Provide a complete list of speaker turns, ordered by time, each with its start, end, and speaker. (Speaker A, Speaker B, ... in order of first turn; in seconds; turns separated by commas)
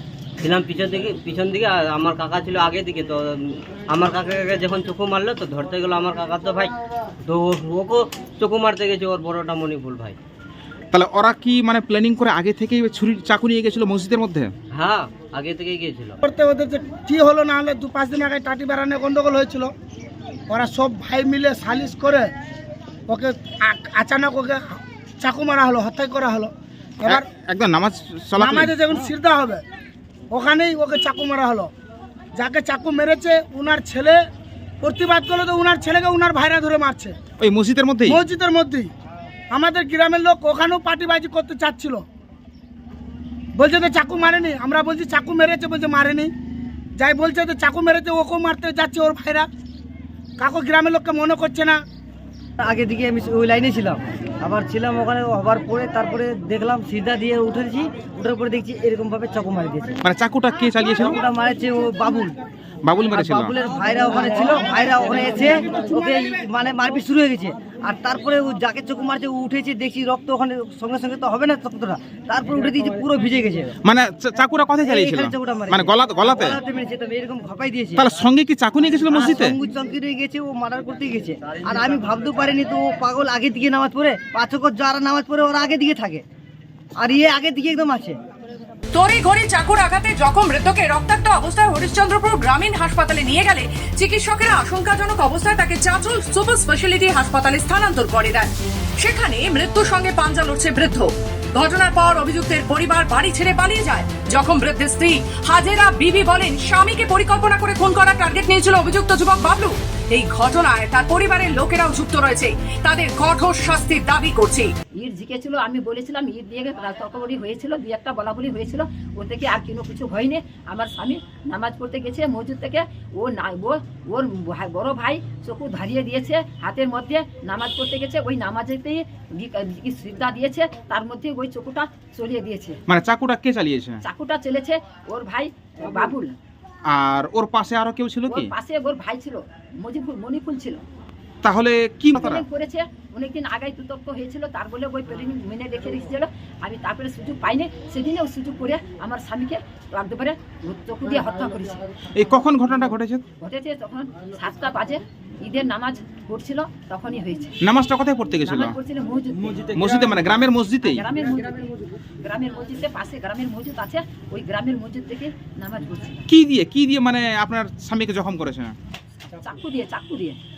Speaker A: 0.4-10.2, Speaker B: 10.9-14.5, Speaker A: 14.7-16.2, Speaker C: 16.2-19.7, Speaker C: 20.5-22.3, Speaker C: 23.1-24.6, Speaker C: 25.2-26.5, Speaker B: 27.0-28.8, Speaker C: 28.4-29.6, Speaker C: 30.3-31.7, Speaker C: 32.4-34.1, Speaker C: 34.8-37.1, Speaker B: 37.4-38.2, Speaker C: 38.1-38.9, Speaker C: 39.5-42.0, Speaker C: 43.6-46.3, Speaker C: 47.0-49.5, Speaker C: 50.4-51.8, Speaker D: 52.6-60.0, Speaker B: 60.0-61.2, Speaker D: 61.0-62.4, Speaker B: 62.8-63.5, Speaker D: 63.1-73.7, Speaker B: 73.8-76.6, Speaker D: 74.8-78.0, Speaker B: 78.0-79.5, Speaker D: 79.1-86.2, Speaker D: 87.0-88.2, Speaker E: 88.9-114.7, Speaker F: 115.0-132.8, Speaker B: 132.9-134.0, Speaker F: 134.0-136.3, Speaker B: 136.9-138.5, Speaker F: 138.3-140.8, Speaker B: 141.4-142.4, Speaker F: 142.2-151.8, Speaker B: 152.2-153.2, Speaker F: 153.4-157.5, Speaker B: 157.6-158.8, Speaker F: 158.4-159.7, Speaker B: 159.7-161.0, Speaker F: 160.8-166.2, Speaker B: 166.3-168.7, Speaker F: 169.4-170.4